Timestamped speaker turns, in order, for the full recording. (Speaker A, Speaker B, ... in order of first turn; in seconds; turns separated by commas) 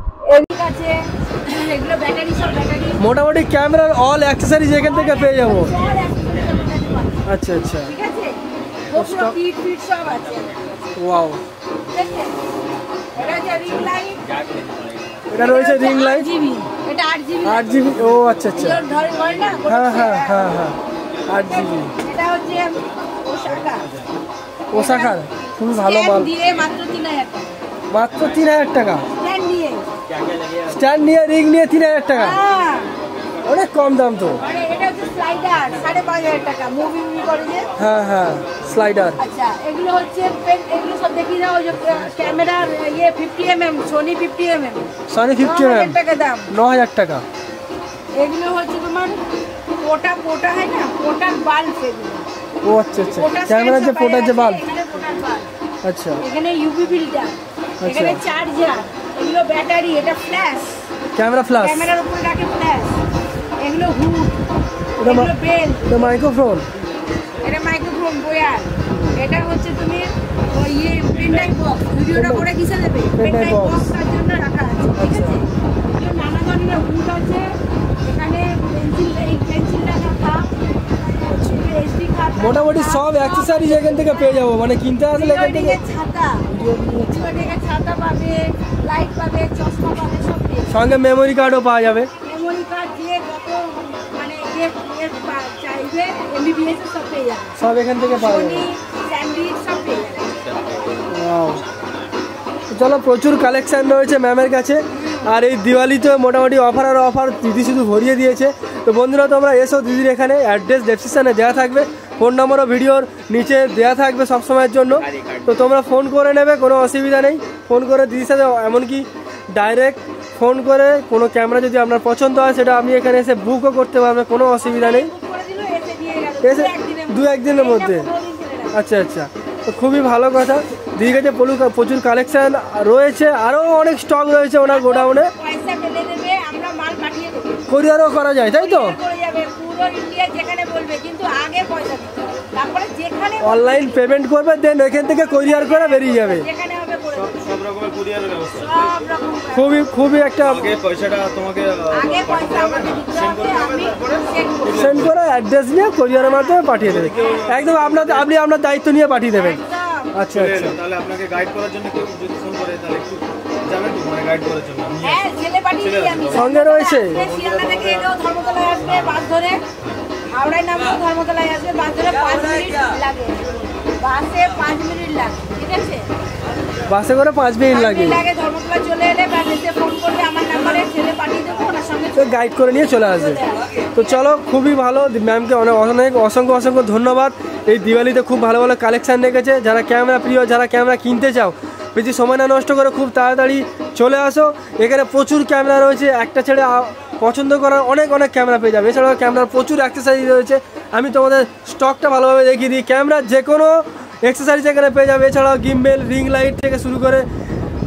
Speaker A: 0.3-3.0, Speaker B: 3.0-5.7, Speaker A: 4.7-7.3, Speaker B: 7.2-7.9, Speaker A: 7.8-8.4, Speaker A: 8.9-11.0, Speaker B: 8.9-9.3, Speaker B: 10.9-11.4, Speaker A: 11.9-12.4, Speaker A: 13.1-14.2, Speaker C: 14.4-14.8, Speaker B: 15.3-16.3, Speaker A: 15.3-17.9, Speaker B: 17.4-18.8, Speaker A: 18.5-20.6, Speaker B: 19.7-21.9, Speaker A: 21.4-23.9, Speaker B: 24.7-26.4, Speaker A: 24.7-27.5, Speaker B: 27.9-29.1, Speaker A: 29.1-29.9, Speaker C: 30.2-30.6, Speaker B: 30.7-32.4, Speaker A: 32.1-32.9, Speaker B: 33.4-34.4, Speaker A: 34.4-37.7, Speaker B: 37.8-39.2, Speaker A: 39.2-44.9, Speaker B: 45.1-46.0, Speaker A: 45.4-46.5, Speaker B: 46.5-47.2, Speaker A: 48.1-49.2, Speaker A: 49.8-52.3, Speaker B: 52.6-54.6, Speaker A: 53.0-55.5, Speaker B: 55.8-56.2, Speaker A: 56.2-60.9, Speaker B: 57.8-58.2, Speaker B: 61.1-61.9, Speaker A: 61.5-63.0, Speaker A: 63.6-64.4, Speaker B: 65.0-65.3, Speaker A: 65.0-66.2, Speaker B: 65.9-66.6, Speaker A: 67.4-77.5, Speaker B: 72.1-72.5, Speaker B: 73.2-73.9, Speaker B: 75.0-75.4, Speaker A: 78.0-80.5, Speaker B: 81.3-81.6, Speaker A: 81.3-84.5, Speaker B: 82.4-85.8, Speaker A: 85.2-91.0, Speaker B: 86.5-87.5, Speaker B: 90.7-92.1, Speaker A: 92.2-97.6, Speaker B: 97.6-98.6, Speaker A: 98.1-100.9, Speaker C: 100.7-100.9, Speaker B: 101.1-101.6, Speaker B: 102.7-125.1, Speaker A: 104.9-105.3, Speaker C: 114.9-115.5, Speaker A: 124.6-128.8, Speaker B: 126.4-128.1, Speaker B: 128.7-135.3, Speaker A: 134.7-137.7, Speaker B: 137.7-138.9, Speaker A: 138.4-143.9, Speaker B: 143.4-146.4, Speaker A: 145.3-147.3, Speaker C: 147.1-148.8, Speaker A: 148.6-149.8, Speaker B: 149.5-150.7, Speaker C: 150.4-155.2, Speaker A: 151.9-155.0, Speaker B: 154.7-159.6, Speaker A: 156.1-156.7, Speaker C: 156.8-158.3, Speaker A: 159.3-160.1, Speaker B: 160.1-160.7, Speaker C: 160.3-165.2, Speaker A: 165.0-169.6, Speaker C: 165.8-166.5, Speaker B: 166.3-167.2, Speaker A: 170.3-173.4, Speaker A: 174.0-176.1, Speaker B: 176.9-178.2, Speaker A: 177.7-184.3, Speaker B: 182.2-183.4, Speaker B: 183.9-207.3